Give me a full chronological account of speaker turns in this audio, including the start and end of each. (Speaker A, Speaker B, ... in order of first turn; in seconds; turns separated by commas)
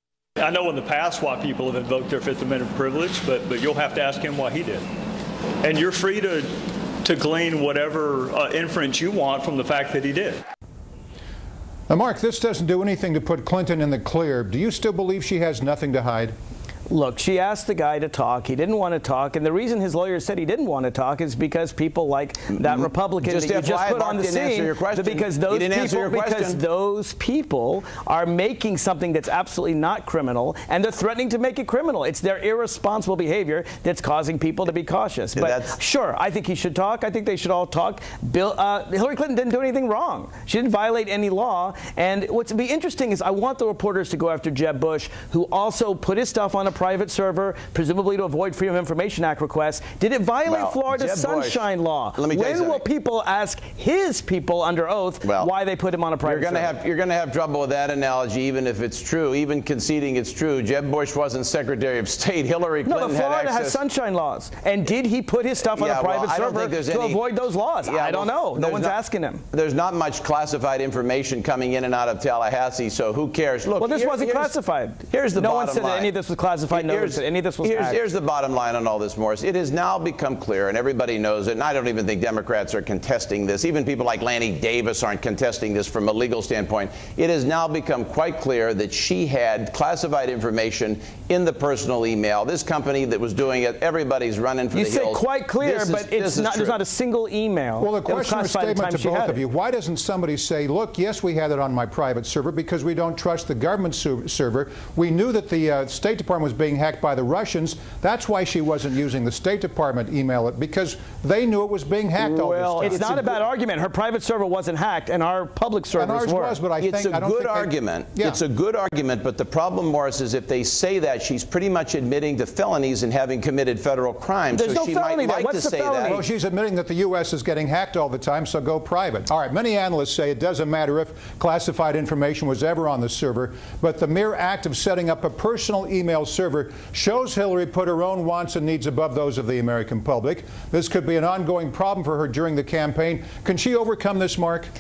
Speaker A: 0.4-4.8, Speaker A: 5.6-6.5, Speaker A: 7.0-10.4, Speaker B: 11.9-16.3, Speaker C: 16.9-56.7, Speaker D: 22.6-26.6, Speaker D: 35.4-35.8, Speaker D: 50.5-52.8, Speaker D: 55.2-55.5, Speaker D: 56.2-63.8, Speaker C: 62.8-69.4, Speaker D: 65.6-69.0, Speaker D: 69.5-74.6, Speaker C: 73.8-78.0, Speaker D: 75.1-76.1, Speaker D: 76.7-96.8, Speaker C: 94.7-99.4, Speaker B: 97.8-113.3, Speaker C: 112.3-116.6, Speaker D: 112.8-113.3, Speaker B: 116.0-118.4, Speaker D: 116.8-126.2, Speaker C: 124.5-126.2, Speaker B: 126.1-144.7